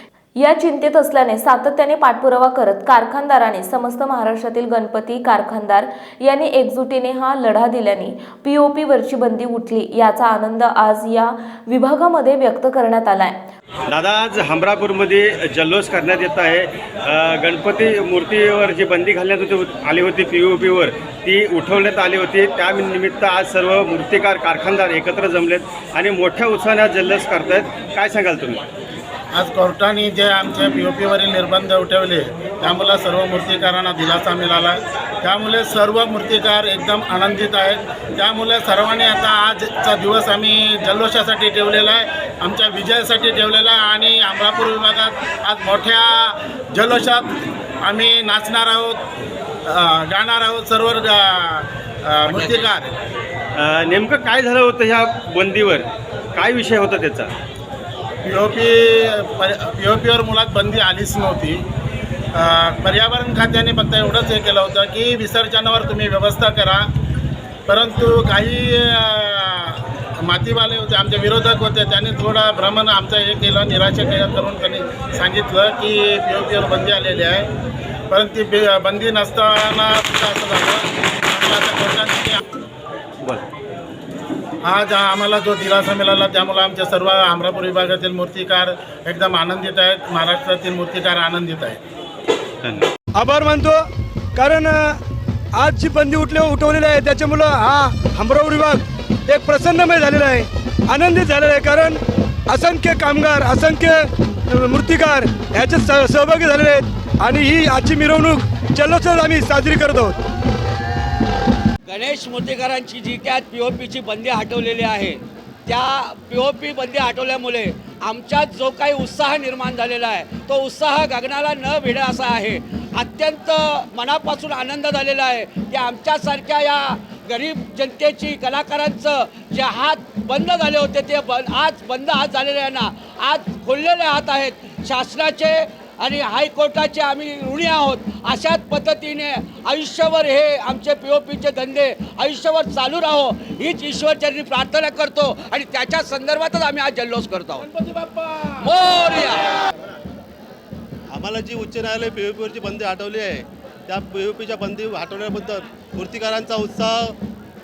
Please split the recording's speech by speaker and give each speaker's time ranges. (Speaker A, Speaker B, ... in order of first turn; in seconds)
Speaker A: 0.4-13.4
Speaker B: 13.9-28.6, 53.6-57.3
Speaker C: 29.3-49.0, 49.7-52.9, 58.3-61.6, 62.3-66.9, 67.7-77.5, 78.1-82.4, 84.7-91.8
Speaker D: 93.1-95.0, 95.5-110.2
Speaker E: 111.9-149.6
Speaker F: 151.1-157.2